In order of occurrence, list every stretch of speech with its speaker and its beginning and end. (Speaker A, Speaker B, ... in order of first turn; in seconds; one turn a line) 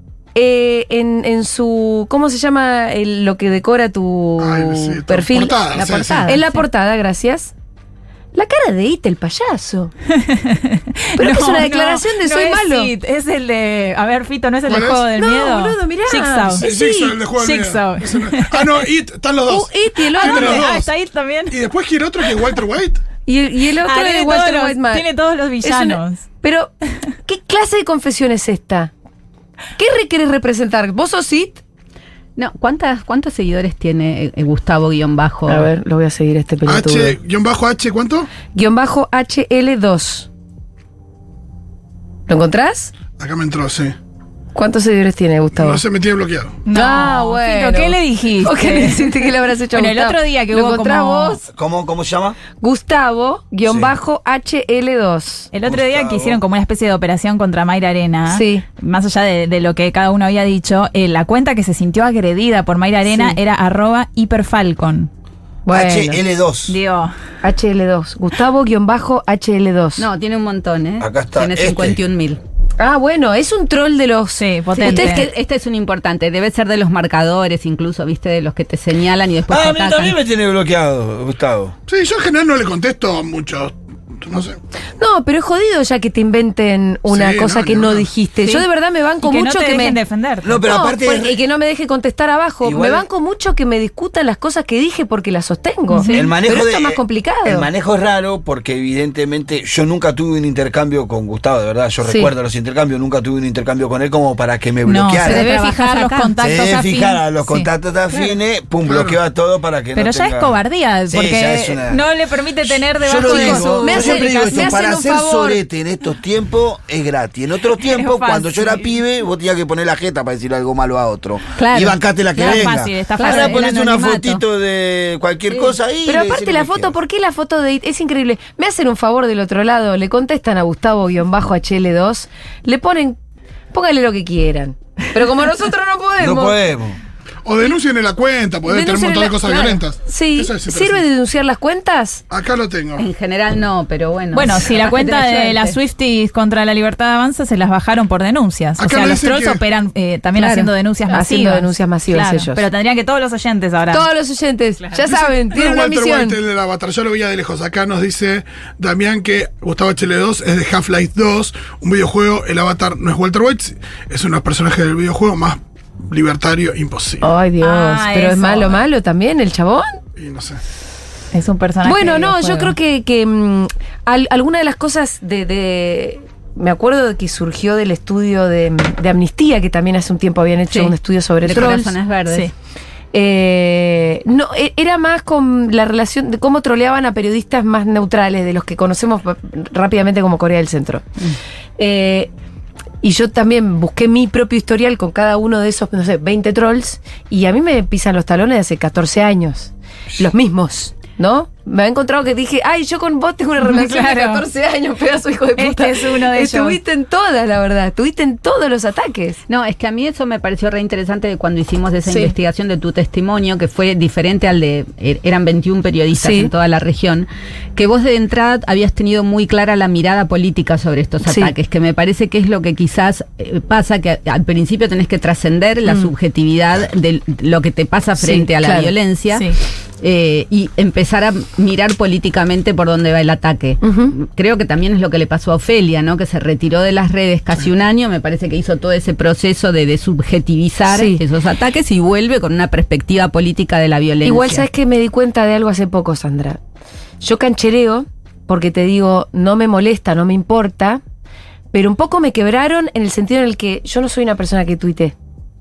Speaker A: 0.3-5.7
Speaker B: 4.4-6.4
Speaker C: 5.7-6.6
Speaker A: 6.2-7.5
Speaker A: 8.3-9.9
Speaker D: 10.1-16.7
Speaker A: 11.2-12.9
Speaker B: 14.7-15.1
Speaker A: 15.2-17.2
Speaker B: 16.6-20.9
Speaker D: 17.4-18.7
Speaker A: 19.5-20.6
Speaker D: 20.1-21.6
Speaker B: 21.5-23.0
Speaker A: 23.3-25.1
Speaker D: 23.8-26.3
Speaker A: 25.6-26.7
Speaker A: 27.2-28.9
Speaker A: 29.8-31.6
Speaker C: 32.4-35.7
Speaker A: 35.5-37.2
Speaker B: 36.7-38.3
Speaker A: 38.5-40.3
Speaker A: 42.3-43.0
Speaker B: 43.1-44.0
Speaker A: 44.5-45.8
Speaker B: 45.5-46.6
Speaker D: 46.7-51.4
Speaker A: 46.7-51.4
Speaker E: 51.5-52.4
Speaker A: 52.6-55.5
Speaker E: 53.6-53.9
Speaker D: 55.5-65.1
Speaker E: 55.7-56.4
Speaker A: 58.3-58.6
Speaker A: 63.1-63.4
Speaker A: 65.7-66.2
Speaker E: 65.7-66.8
Speaker D: 66.7-67.1
Speaker A: 67.4-70.1
Speaker C: 70.0-72.4
Speaker E: 71.0-72.0
Speaker A: 72.8-75.4
Speaker D: 74.4-75.3
Speaker C: 74.8-80.2
Speaker E: 79.5-81.8
Speaker B: 81.9-84.6
Speaker A: 85.0-90.0
Speaker B: 87.1-88.1
Speaker D: 89.2-90.6
Speaker E: 90.4-91.3
Speaker A: 90.6-97.7
Speaker E: 92.6-93.1
Speaker D: 95.9-96.3
Speaker E: 96.1-105.5
Speaker D: 104.9-107.7
Speaker C: 105.2-106.3
Speaker E: 106.4-110.5
Speaker B: 108.9-109.2
Speaker D: 110.0-114.8
Speaker E: 111.1-112.0
Speaker E: 112.8-127.0
Speaker A: 113.2-115.6
Speaker D: 117.8-119.0
Speaker C: 121.6-122.0
Speaker D: 122.4-124.1
Speaker C: 123.2-124.4
Speaker A: 125.5-133.2
Speaker A: 133.7-136.6
Speaker E: 136.2-137.0
Speaker B: 137.4-141.1
Speaker A: 138.7-142.2
Speaker B: 142.3-143.1
Speaker C: 143.0-145.8
Speaker D: 144.3-154.1
Speaker B: 148.8-149.6
Speaker C: 150.4-150.7
Speaker A: 151.1-152.6
Speaker A: 153.9-156.4
Speaker B: 155.0-167.3
Speaker A: 167.2-170.0
Speaker D: 167.6-168.8
Speaker B: 170.2-170.6
Speaker D: 171.3-172.8
Speaker A: 171.8-181.9
Speaker C: 180.7-182.5
Speaker A: 183.1-191.1
Speaker A: 191.8-192.3
Speaker A: 193.0-209.4
Speaker D: 203.6-204.4
Speaker D: 205.6-206.8
Speaker C: 209.5-244.7
Speaker A: 216.2-216.5
Speaker A: 221.2-221.5
Speaker A: 225.9-226.1
Speaker A: 228.2-228.9
Speaker A: 233.8-234.1
Speaker A: 240.9-241.2
Speaker A: 244.2-246.6
Speaker A: 247.2-251.0
Speaker A: 251.7-255.2